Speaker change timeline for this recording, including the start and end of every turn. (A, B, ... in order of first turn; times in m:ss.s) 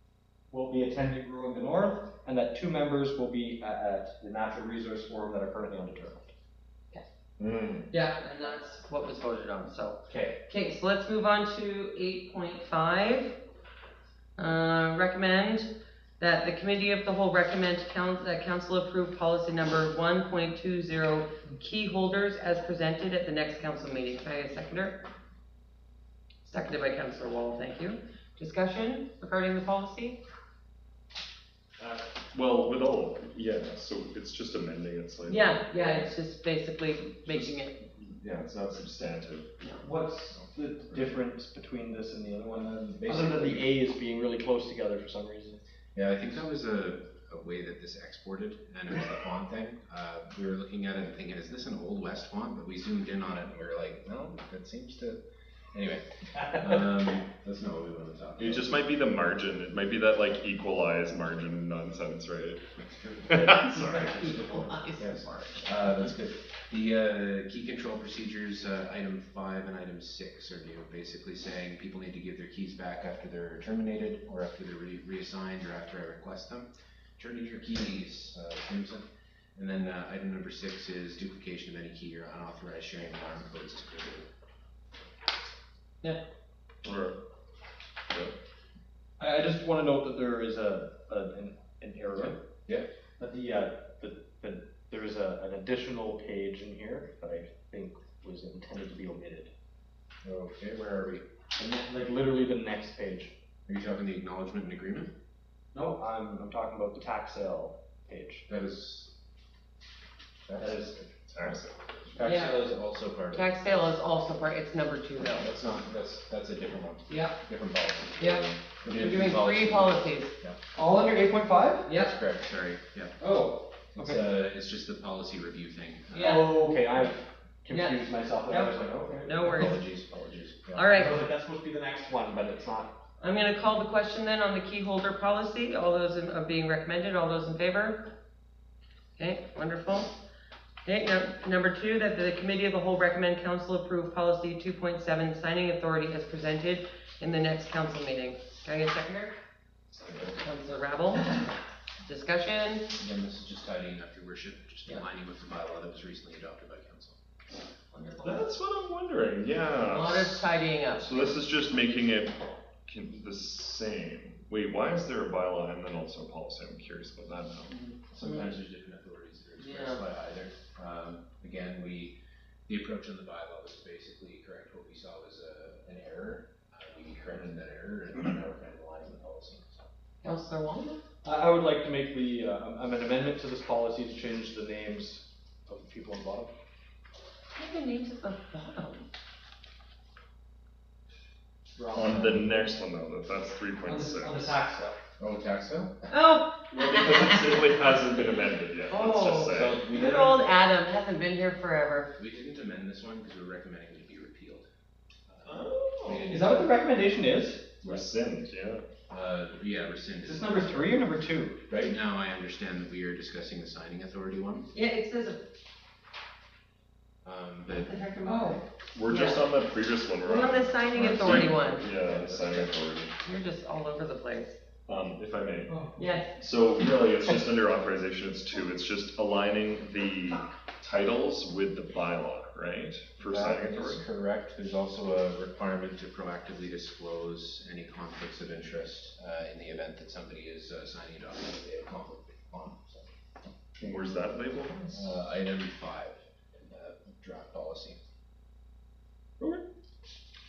0:00.5-0:06.3 A
0:07.4-0:07.9 B
0:07.9-0:13.4 C
0:10.1-0:10.4 A
0:14.4-0:25.0 C
0:26.4-0:30.2 C
0:31.8-0:36.1 B
0:35.2-0:37.7 C
0:37.3-0:39.5 B
0:39.8-0:45.6 A
0:43.0-0:43.6 D
0:45.9-0:55.2 D
0:55.7-0:58.7 D
0:58.4-1:02.6 B
1:03.2-1:04.1 B
1:03.4-1:03.6 A
1:03.4-1:05.7 C
1:05.0-1:24.3 D
1:26.8-1:27.2 B
1:28.1-1:28.3 B
1:29.2-1:32.4 A
1:32.1-1:32.8 D
1:33.2-1:39.5 A
1:40.2-1:41.2 D
1:41.6-1:43.3 A
1:43.7-1:45.1 D
1:45.7-1:48.4 A
1:48.5-1:49.1 D
1:50.5-1:51.0 D
1:50.6-1:51.0 A
1:51.3-1:52.1 B
1:52.1-1:53.6 D
1:52.2-1:52.6 C
1:53.3-1:55.5 C
1:55.2-2:00.6 D
1:57.1-1:57.4 C
1:58.2-2:00.3 C
2:00.7-2:01.9 A
2:01.8-2:02.1 C
2:01.9-2:03.2 D
2:03.2-2:04.2 A
2:03.9-2:06.4 D
2:06.1-2:06.5 C
2:06.2-2:09.8 A
2:07.7-2:09.8 C
2:09.4-2:10.9 D
2:10.7-2:11.2 C
2:10.9-2:12.9 A
2:13.2-2:18.0 C
2:19.2-2:20.1 C
2:20.8-2:29.3 C
2:29.9-2:30.4 D
2:30.4-2:31.4 C
2:32.0-2:32.9 C
2:33.0-2:37.2 D
2:37.9-2:38.5 C
2:38.2-2:40.4 B
2:39.8-2:41.4 C
2:41.0-2:47.7 B
2:47.7-2:48.5 C
2:48.1-2:52.2 D
2:49.6-2:50.0 C
2:52.7-2:59.9 D
3:00.2-3:01.0 C
3:01.2-3:06.5 A
3:07.5-3:09.0 C
3:11.7-3:12.4 A
3:11.9-3:14.5 B
3:13.8-3:15.0 A
3:15.2-3:15.9 D
3:16.1-3:17.5 C
3:16.7-3:19.8 B
3:18.9-3:22.1 C
3:19.5-3:20.5 D
3:22.2-3:24.6 D
3:25.3-3:26.8 D
3:25.4-3:26.3 B
3:26.3-3:27.7 A
3:27.8-3:28.8 B
3:29.1-3:31.1 D
3:30.2-3:31.6 A
3:31.7-3:34.7 D
3:34.7-3:35.4 C
3:37.2-3:37.9 D
3:38.0-3:38.6 A
3:38.2-3:39.4 C
3:38.9-3:43.1 B
3:40.2-3:41.8 C
3:41.8-3:42.6 D
3:43.2-3:44.6 C
3:44.9-3:45.7 B
3:45.7-3:46.0 A
3:46.0-3:46.3 C
3:46.4-3:54.0 B
3:53.2-4:03.1 D
4:03.8-4:05.1 B
4:04.9-4:08.0 D